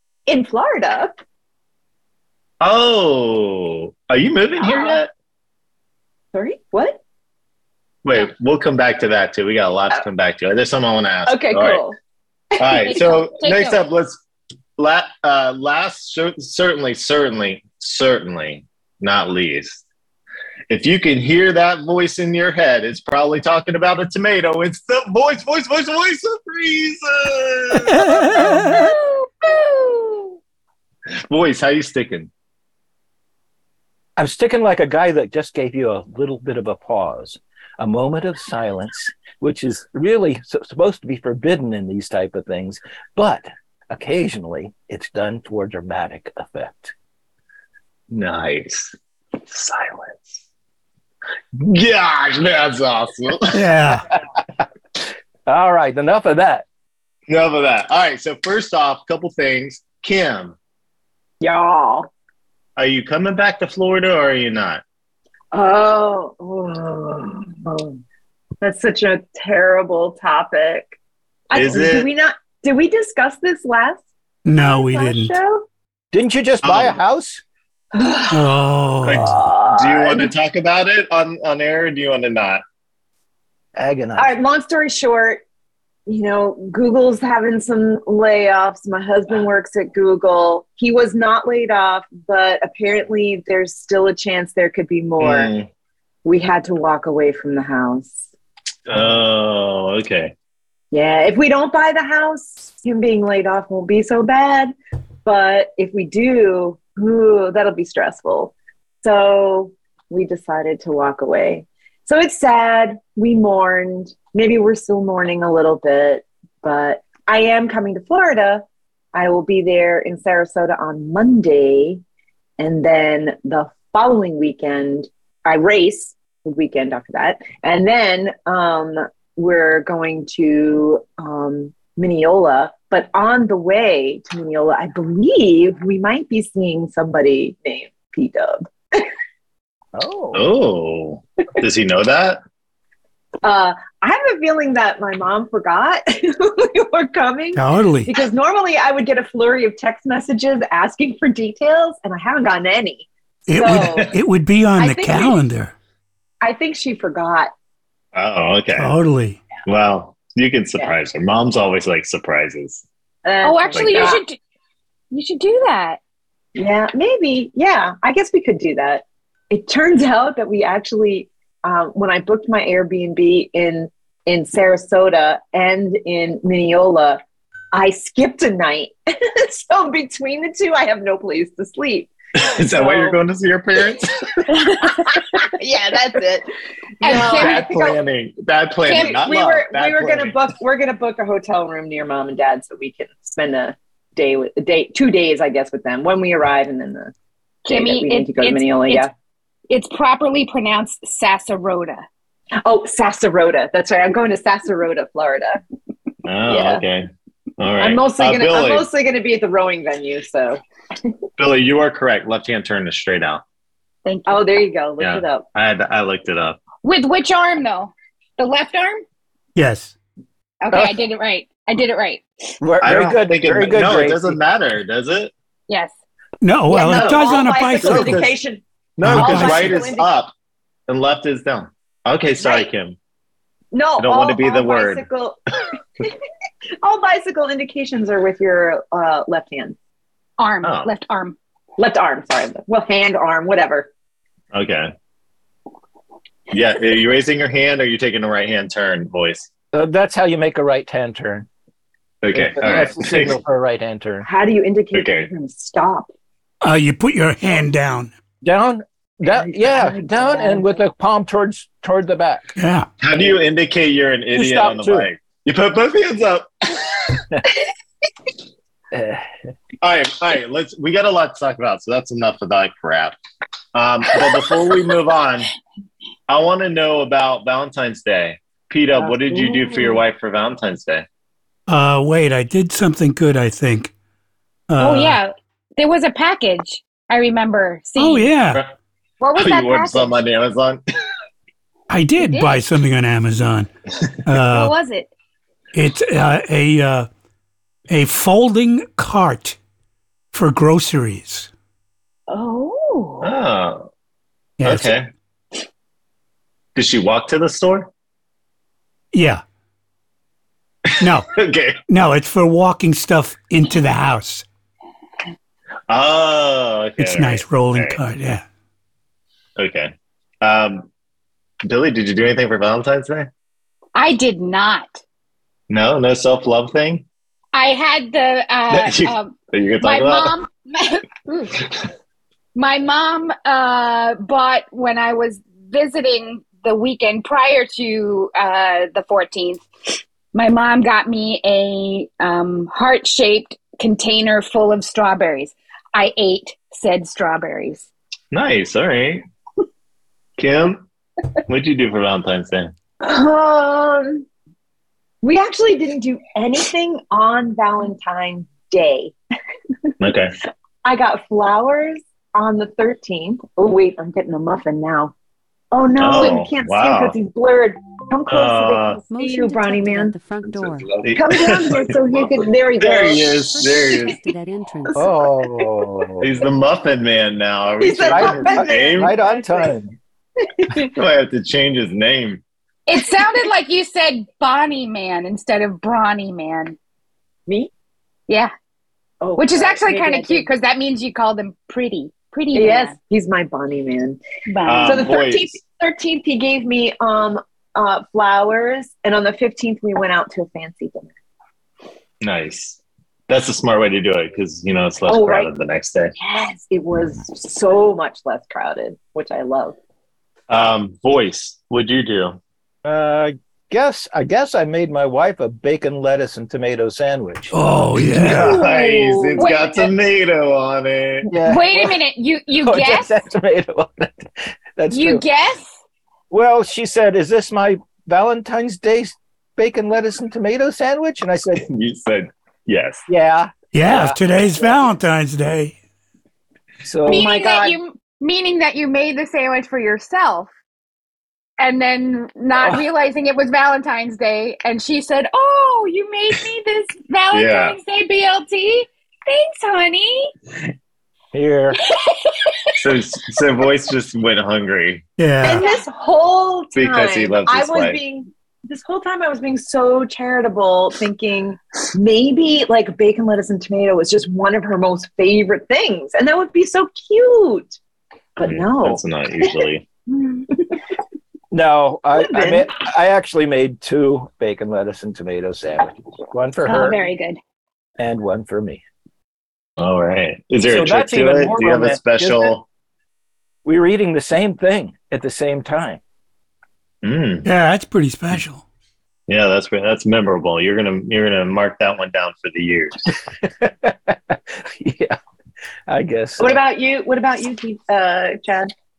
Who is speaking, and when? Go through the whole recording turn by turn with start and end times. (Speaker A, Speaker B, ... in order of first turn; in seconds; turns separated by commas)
Speaker A: 0.3-1.2, Speaker B: 2.6-5.1, Speaker A: 4.6-5.0, Speaker A: 6.3-7.0, Speaker B: 8.0-11.8, Speaker A: 11.3-11.9, Speaker B: 12.6-14.2, Speaker C: 12.8-13.8, Speaker B: 14.8-19.8, Speaker B: 20.7-28.6, Speaker D: 27.9-28.9, Speaker C: 28.5-30.4, Speaker B: 31.3-32.3, Speaker E: 34.2-46.9, Speaker B: 48.1-50.4, Speaker B: 51.5-53.7, Speaker D: 53.5-54.1, Speaker E: 55.5-56.6, Speaker B: 57.3-60.5, Speaker A: 61.4-62.1, Speaker B: 62.8-64.8, Speaker A: 65.5-68.0, Speaker A: 68.6-70.9, Speaker A: 71.5-74.0, Speaker B: 71.5-72.1, Speaker D: 74.4-75.3, Speaker A: 74.5-75.6, Speaker E: 76.1-77.4, Speaker B: 76.6-77.0, Speaker A: 77.9-78.5, Speaker D: 78.3-79.3, Speaker B: 79.0-82.6, Speaker A: 79.4-80.3, Speaker E: 83.7-84.3, Speaker A: 84.2-85.4, Speaker A: 86.1-95.5, Speaker B: 95.2-95.7, Speaker A: 96.2-98.1, Speaker B: 98.9-100.3, Speaker A: 100.9-104.7, Speaker A: 105.2-122.0, Speaker A: 122.6-139.1, Speaker E: 139.9-140.5, Speaker B: 140.3-142.4, Speaker A: 143.4-154.1, Speaker D: 147.5-148.2, Speaker D: 153.5-155.7, Speaker A: 154.8-155.4, Speaker A: 156.4-157.5, Speaker B: 158.1-158.9, Speaker D: 158.7-159.4, Speaker B: 159.6-162.8, Speaker A: 163.2-164.2, Speaker C: 163.4-164.4, Speaker B: 163.7-164.2, Speaker C: 165.1-166.0, Speaker A: 166.5-177.2, Speaker A: 177.7-183.2, Speaker B: 182.3-184.9, Speaker A: 184.8-186.5, Speaker A: 187.0-188.0, Speaker C: 187.0-187.6, Speaker B: 187.0-190.4, Speaker C: 188.8-189.3, Speaker A: 188.9-197.1, Speaker C: 197.7-199.1, Speaker A: 197.7-199.1, Speaker C: 199.7-202.0, Speaker A: 202.6-205.6, Speaker B: 206.2-207.1, Speaker A: 206.5-206.8, Speaker B: 207.6-208.9, Speaker A: 207.8-210.6, Speaker B: 211.4-213.4, Speaker C: 214.0-214.6, Speaker A: 214.3-215.4, Speaker B: 215.0-216.6, Speaker C: 216.8-219.0, Speaker D: 219.6-219.9, Speaker C: 220.6-222.2, Speaker E: 220.7-221.0, Speaker E: 222.6-224.4, Speaker B: 222.8-225.3, Speaker D: 226.4-228.3, Speaker A: 226.7-230.1, Speaker B: 227.8-228.3, Speaker B: 229.0-230.3, Speaker D: 229.0-229.8, Speaker B: 230.9-233.0, Speaker A: 232.4-232.7, Speaker A: 233.7-235.4, Speaker B: 234.0-235.1, Speaker A: 236.8-239.8, Speaker C: 240.4-241.4, Speaker B: 240.6-240.9, Speaker A: 241.8-243.9, Speaker B: 244.5-244.9, Speaker B: 246.5-249.5, Speaker E: 249.7-251.5, Speaker B: 252.2-253.4, Speaker E: 252.3-254.2, Speaker A: 254.2-256.1, Speaker B: 254.9-255.3, Speaker D: 256.6-258.1, Speaker E: 258.4-262.5, Speaker A: 259.4-260.7, Speaker D: 262.6-262.9, Speaker B: 263.0-267.2, Speaker E: 264.3-265.1, Speaker E: 268.9-269.3, Speaker B: 269.8-273.1, Speaker B: 273.7-275.5, Speaker B: 276.3-281.1, Speaker C: 279.4-280.0, Speaker D: 281.7-283.9, Speaker D: 284.7-285.2, Speaker C: 284.8-288.3, Speaker D: 288.0-288.6, Speaker C: 289.2-290.1, Speaker B: 289.4-290.8, Speaker D: 291.9-293.7, Speaker C: 292.2-292.6, Speaker D: 294.2-294.7, Speaker C: 294.5-295.1, Speaker D: 295.7-297.1, Speaker D: 297.9-299.6, Speaker D: 300.3-301.5, Speaker C: 302.3-303.4, Speaker B: 303.2-303.9, Speaker D: 304.6-304.9, Speaker B: 304.6-305.1, Speaker B: 306.8-307.9, Speaker D: 309.1-309.4, Speaker D: 311.0-311.3, Speaker B: 311.0-311.8, Speaker D: 311.9-314.4, Speaker B: 315.9-318.0, Speaker D: 317.0-318.4, Speaker B: 319.6-320.9, Speaker B: 321.6-323.3, Speaker C: 323.9-325.0, Speaker B: 325.7-327.1, Speaker C: 327.5-331.5, Speaker B: 328.7-330.4, Speaker C: 332.5-339.6, Speaker C: 340.3-347.9, Speaker B: 348.3-349.2, Speaker B: 350.4-350.8, Speaker B: 351.4-352.7, Speaker A: 353.0-354.2, Speaker A: 355.2-359.1, Speaker B: 360.0-360.3, Speaker A: 360.8-365.1, Speaker A: 365.7-370.1, Speaker B: 366.0-367.1, Speaker B: 368.3-369.0, Speaker F: 368.9-371.5, Speaker B: 371.0-372.1, Speaker A: 371.1-374.2, Speaker B: 372.8-374.2, Speaker F: 373.0-375.3, Speaker A: 374.9-375.7, Speaker E: 374.9-376.3, Speaker B: 376.2-379.1, Speaker A: 377.8-379.7, Speaker E: 378.0-379.9, Speaker A: 380.4-380.9, Speaker B: 380.8-382.4, Speaker C: 382.9-386.8, Speaker A: 389.2-390.5, Speaker C: 389.4-392.9, Speaker A: 392.5-394.2, Speaker C: 394.5-395.1, Speaker B: 394.6-395.6, Speaker A: 394.8-401.1, Speaker B: 402.2-406.1, Speaker A: 405.1-405.5, Speaker A: 406.2-409.8, Speaker B: 410.5-412.4, Speaker E: 412.8-418.5, Speaker D: 417.5-418.6, Speaker A: 418.3-419.6, Speaker B: 418.3-421.3, Speaker C: 419.4-419.9, Speaker E: 421.3-421.9, Speaker C: 421.4-423.1, Speaker E: 422.6-425.2, Speaker C: 424.9-425.8, Speaker E: 426.3-431.6, Speaker B: 431.5-433.1, Speaker E: 433.1-434.9, Speaker D: 433.7-435.8, Speaker E: 436.8-437.3, Speaker A: 437.1-437.8, Speaker C: 437.1-440.5, Speaker C: 441.6-450.3, Speaker B: 447.3-447.8, Speaker E: 451.3-451.8, Speaker C: 451.9-452.5, Speaker B: 452.8-455.0, Speaker D: 455.2-455.7, Speaker A: 455.4-467.8, Speaker B: 456.7-458.0, Speaker A: 468.4-469.6, Speaker B: 468.4-469.9, Speaker E: 471.5-477.0, Speaker A: 472.1-472.7, Speaker C: 476.6-477.4, Speaker E: 478.0-478.8, Speaker B: 479.8-482.6, Speaker E: 480.7-482.5, Speaker E: 483.6-486.0, Speaker B: 487.0-487.5, Speaker D: 487.4-488.6, Speaker B: 489.3-493.1, Speaker E: 493.4-495.2, Speaker E: 495.9-496.6, Speaker A: 496.4-498.7